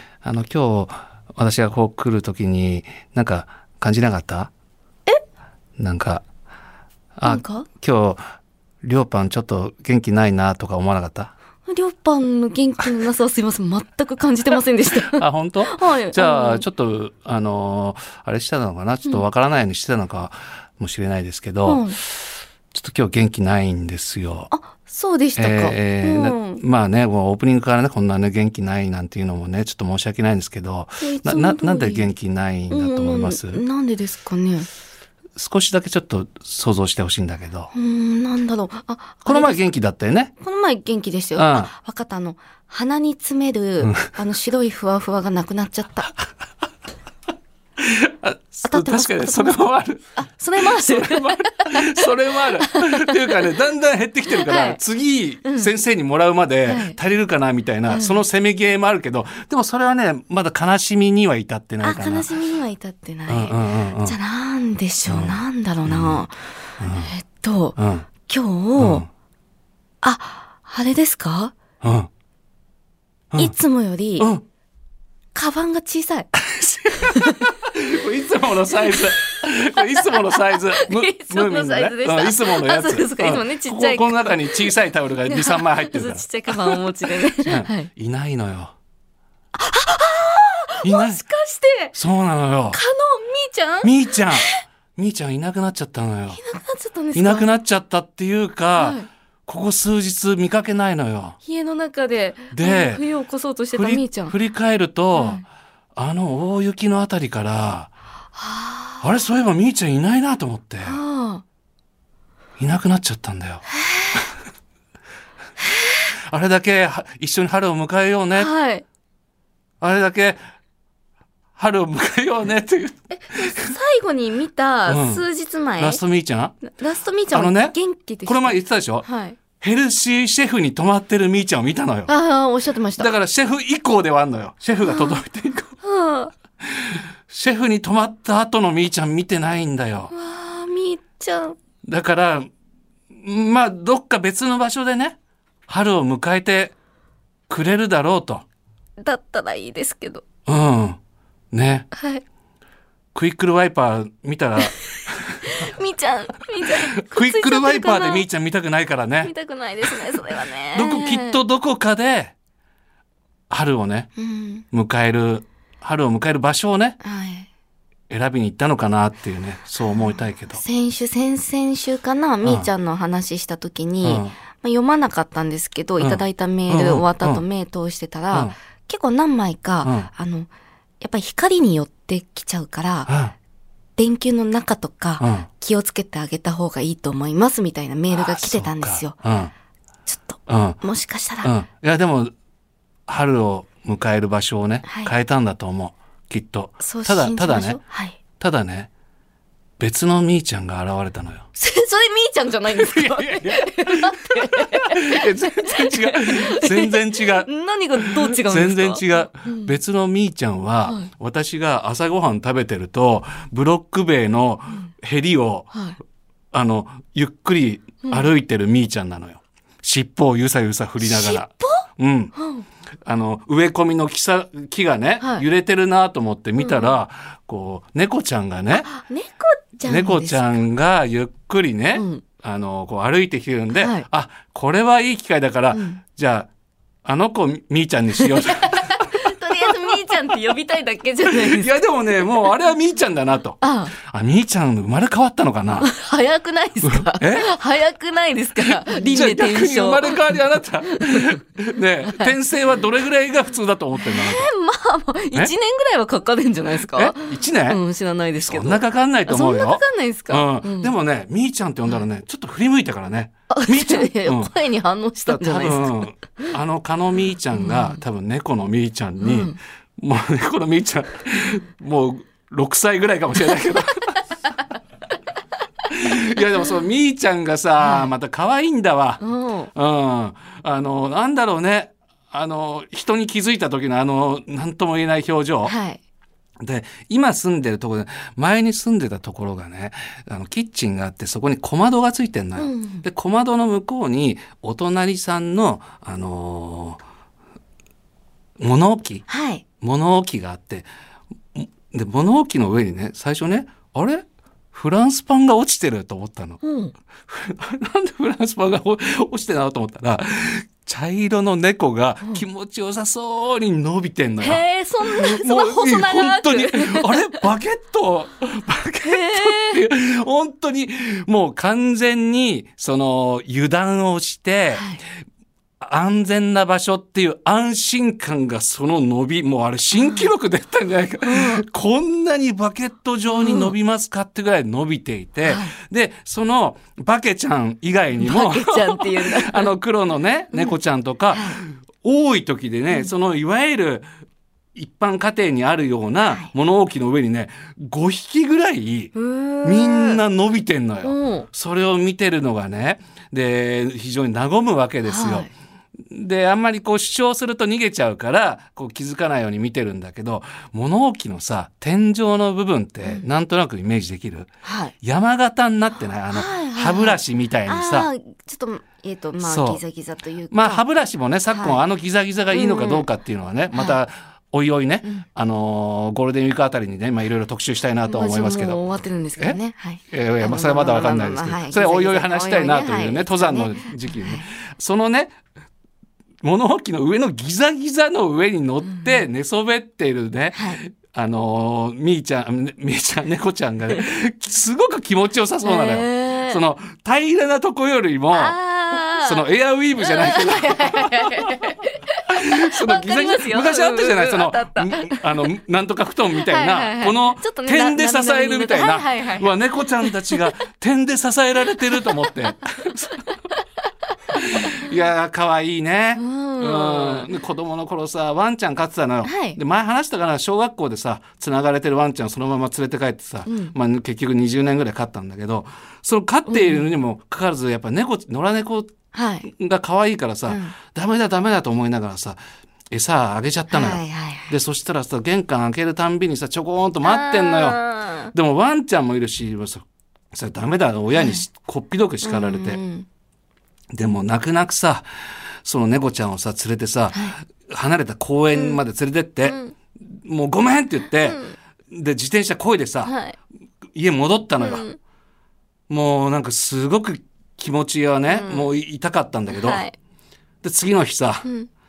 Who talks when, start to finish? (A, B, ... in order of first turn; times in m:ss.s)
0:00.2-0:04.5 A
0:05.8-0:06.2 A
0:07.2-0:08.2 A
0:07.2-0:07.7 B
0:08.8-0:11.3 A
0:11.7-0:16.6 B
0:15.1-0:21.8 A
0:21.6-0:22.0 B
0:22.7-0:24.5 A
0:24.5-0:26.6 B
0:25.4-0:33.6 A
0:31.0-0:32.1 B
0:32.7-0:34.7 B
0:35.4-0:37.7 A
0:37.7-0:39.6 B
0:39.2-0:40.3 A
0:40.4-0:46.1 B
0:41.4-0:41.7 A
0:43.8-0:44.1 A
0:47.8-1:02.3 A
0:48.6-0:53.4 B
0:54.3-0:54.8 B
0:55.4-0:55.7 B
0:56.7-0:57.0 B
0:57.9-0:58.2 B
1:01.8-1:06.3 B
1:03.3-1:04.2 A
1:05.1-1:06.2 A
1:06.8-1:07.1 A
1:06.9-1:09.0 B
1:07.8-1:08.1 A
1:08.8-1:09.1 A
1:10.0-1:11.5 B
1:11.8-1:12.1 A
1:13.4-1:14.3 B
1:14.2-1:14.4 A
1:15.3-1:16.3 B
1:16.4-1:26.8 A
1:17.0-1:17.5 B
1:20.0-1:24.7 B
1:25.3-1:27.9 B
1:27.3-1:28.7 A
1:29.5-1:31.9 B
1:30.8-1:31.2 A
1:31.9-1:32.8 A
1:32.7-1:34.6 B
1:33.8-1:36.4 A
1:36.3-1:37.5 B
1:37.1-1:41.4 A
1:38.8-1:39.1 B
1:41.4-1:44.3 B
1:42.5-1:43.0 A
1:43.7-1:45.4 A
1:45.1-1:45.4 B
1:46.0-1:47.9 A
1:48.4-1:49.1 B
1:49.0-1:51.0 A
1:50.8-1:51.4 B
1:52.6-1:53.6 A
1:53.7-1:54.2 B
1:55.7-1:56.0 B
1:56.1-1:58.5 A
1:58.3-1:58.8 B
1:59.8-2:00.4 A
2:01.6-2:03.7 A
2:03.1-2:06.0 B
2:04.9-2:05.2 A
2:05.8-2:06.7 A
2:06.7-2:09.4 B
2:07.3-2:07.7 A
2:08.2-2:12.1 A
2:12.1-2:13.1 B
2:13.0-2:15.7 A
2:14.8-2:15.2 B
2:15.8-2:16.3 B
2:16.7-2:20.1 A
2:20.1-2:21.6 B
2:21.8-2:22.5 A
2:23.1-2:25.2 A
2:25.7-2:26.7 A
2:27.5-2:28.4 A
2:29.0-2:30.2 B
2:30.5-2:31.0 A
2:31.5-2:31.9 A
2:31.9-2:32.2 B
2:33.1-2:35.5 A
2:35.4-2:38.2 B
2:37.0-2:39.3 A
2:39.2-2:41.4 B
2:39.9-2:42.3 A
2:43.5-2:44.1 A
2:44.2-2:44.6 B
2:44.7-2:47.0 A
2:47.0-2:47.5 B
2:48.1-2:50.6 A
2:49.8-3:00.5 B
2:52.4-2:52.7 A
2:54.0-2:54.3 A
2:56.0-2:57.4 A
2:59.8-3:00.1 A
3:01.0-3:03.1 B
3:03.1-3:03.3 A
3:04.0-3:09.2 B
3:05.2-3:05.5 A
3:08.1-3:09.5 A
3:10.1-3:11.5 B
3:10.5-3:10.8 A
3:11.4-3:12.3 A
3:13.1-3:17.8 A
3:14.8-3:15.1 B
3:16.8-3:18.2 B
3:18.4-3:18.9 A
3:19.8-3:21.5 A
3:21.6-3:29.8 B
3:22.8-3:27.5 A
3:28.0-3:35.7 A
3:35.7-3:36.0 B
3:36.5-3:42.3 A
3:41.0-3:42.6 B
3:43.0-3:48.9 A
3:46.6-3:47.0 B
3:48.7-3:50.6 B
3:49.8-3:56.5 A
3:51.9-3:52.2 B
3:53.7-3:54.0 B
3:55.7-3:56.0 B
3:57.0-3:59.1 A
3:58.2-4:01.8 B
4:01.3-4:05.9 A
4:03.6-4:03.9 B
4:05.8-4:11.4 B
4:06.8-4:07.5 A
4:08.6-4:14.5 A
4:12.0-4:12.3 B
4:14.0-4:20.9 B
4:16.8-4:17.8 A
4:18.4-4:24.5 A
4:23.5-4:26.5 B
4:25.2-4:34.2 A
4:27.5-4:28.0 B
4:29.2-4:29.6 B
4:35.9-4:39.2 A
4:37.8-4:38.1 B
4:39.2-4:39.7 B
4:39.7-4:45.7 A
4:45.6-4:46.0 B
4:46.6-4:57.0 A
4:52.6-4:53.0 B
4:58.6-4:59.2 A
4:59.3-4:59.6 B
4:59.8-5:00.9 A
5:01.5-5:06.6 A
5:06.6-5:06.9 B
5:07.2-5:24.8 A
5:14.4-5:17.4 B
5:19.0-5:19.8 B
5:24.7-5:25.0 B
5:25.8-5:44.0 A
5:29.9-5:30.3 B
5:31.2-5:31.6 B
5:33.3-5:33.7 B
5:35.4-5:35.7 B
5:38.2-5:39.7 B
5:40.5-5:40.8 B
5:41.3-5:41.6 B
5:44.7-5:55.5 A
5:49.1-5:50.2 B
5:51.0-5:51.5 B
5:55.0-5:55.5 B
5:56.1-6:04.5 A
6:04.6-6:04.9 B
6:05.0-6:08.1 A
6:06.3-6:10.8 B
6:09.4-6:09.8 A
6:10.5-6:18.8 A
6:11.5-6:11.8 B
6:12.5-6:13.1 B
6:13.7-6:14.0 B
6:18.1-6:24.4 B
6:19.4-6:25.4 A
6:26.4-6:38.6 A
6:28.8-6:29.2 B
6:30.5-6:30.8 B
6:35.6-6:36.6 B
6:38.3-6:45.5 B
6:39.1-6:41.5 A
6:42.3-6:53.1 A
6:46.4-6:50.4 B
6:51.9-6:52.5 B
6:54.3-7:12.4 A
6:56.2-6:57.3 B
6:59.2-6:59.6 B
7:03.4-7:03.7 B
7:06.5-7:06.8 B
7:09.1-7:09.5 B
7:10.5-7:10.7 B
7:12.9-7:22.8 A
7:13.7-7:14.5 B
7:17.0-7:18.3 B
7:21.1-7:21.4 B
7:22.2-7:23.1 B
7:23.9-7:25.1 A
7:25.6-7:29.6 A
7:28.5-7:28.8 B
7:29.4-7:29.7 B
7:30.2-7:33.1 A
7:31.2-7:31.6 B
7:33.0-7:33.4 B
7:33.9-7:34.9 A
7:34.6-7:35.0 B
7:35.9-7:39.8 A
7:38.3-7:38.7 B
7:39.5-7:39.9 B
7:40.6-7:41.5 A